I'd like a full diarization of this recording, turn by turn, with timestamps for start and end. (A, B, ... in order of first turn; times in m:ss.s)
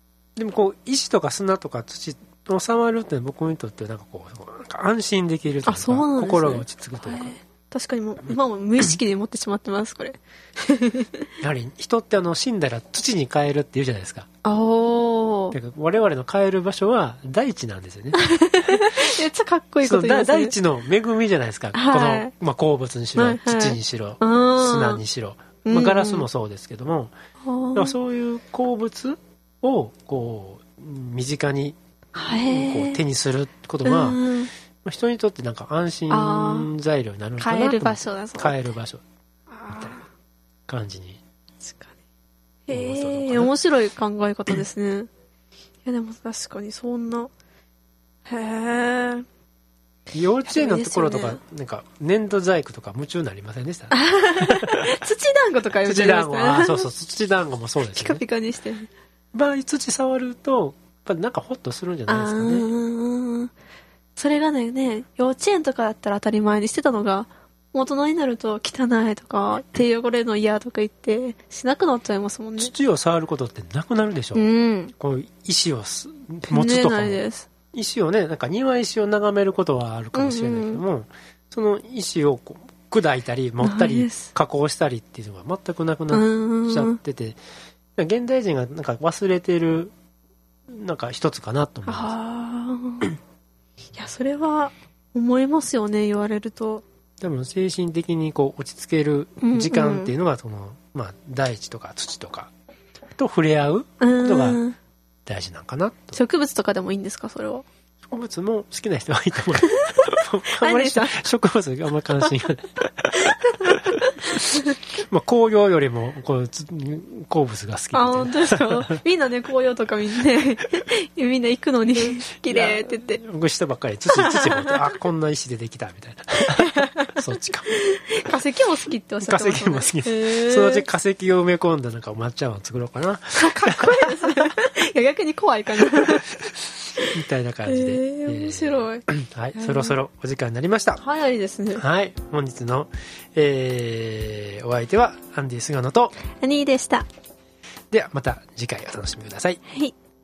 0:00.4-0:07.4 A
0:05.6-0:11.3 B
0:11.4-0:14.3 A
0:14.4-0:15.6 B
0:15.5-0:19.0 A
0:18.1-0:20.5 B
0:19.8-0:27.1 A
0:21.7-0:22.3 B
0:23.2-0:25.0 B
0:25.6-0:26.3 B
0:27.4-0:28.0 B
0:27.8-0:34.2 A
0:32.2-0:33.0 B
0:33.8-0:34.5 B
0:34.8-0:39.0 A
0:36.1-0:36.7 B
0:37.4-0:38.6 B
0:39.5-0:40.1 B
0:39.7-0:40.0 A
0:40.7-0:41.2 A
0:41.6-0:41.9 B
0:42.7-0:45.1 B
0:42.7-0:43.5 A
0:45.8-0:47.3 B
0:48.3-0:49.2 B
0:50.1-0:55.0 A
0:50.5-0:51.4 B
0:53.9-0:56.9 B
0:55.8-0:58.2 A
0:57.9-0:58.9 B
0:59.3-1:02.7 A
1:02.1-1:03.5 B
1:04.2-1:12.7 B
1:12.6-1:14.5 A
1:14.4-1:14.9 B
1:15.0-1:27.4 A
1:16.5-1:17.5 B
1:20.2-1:20.8 B
1:23.6-1:24.3 B
1:26.1-1:27.0 B
1:28.0-1:29.9 A
1:30.7-1:32.2 A
1:31.9-1:33.1 B
1:34.0-1:36.8 B
1:37.2-1:42.5 A
1:39.4-1:40.1 B
1:43.2-1:44.6 A
1:44.0-1:44.8 B
1:45.3-1:46.2 A
1:46.1-1:47.7 B
1:48.1-1:54.4 A
1:49.8-1:51.3 B
1:53.4-1:54.7 B
1:54.9-1:59.0 A
1:57.9-2:03.2 B
2:02.0-2:07.7 A
2:04.1-2:04.9 B
2:06.6-2:10.8 B
2:09.2-2:14.4 A
2:13.4-2:16.3 B
2:17.1-2:21.0 A
2:17.7-2:20.0 B
2:21.0-2:21.8 B
2:21.8-2:26.2 A
2:26.3-2:27.1 B
2:27.9-2:29.6 A
2:29.7-2:29.9 B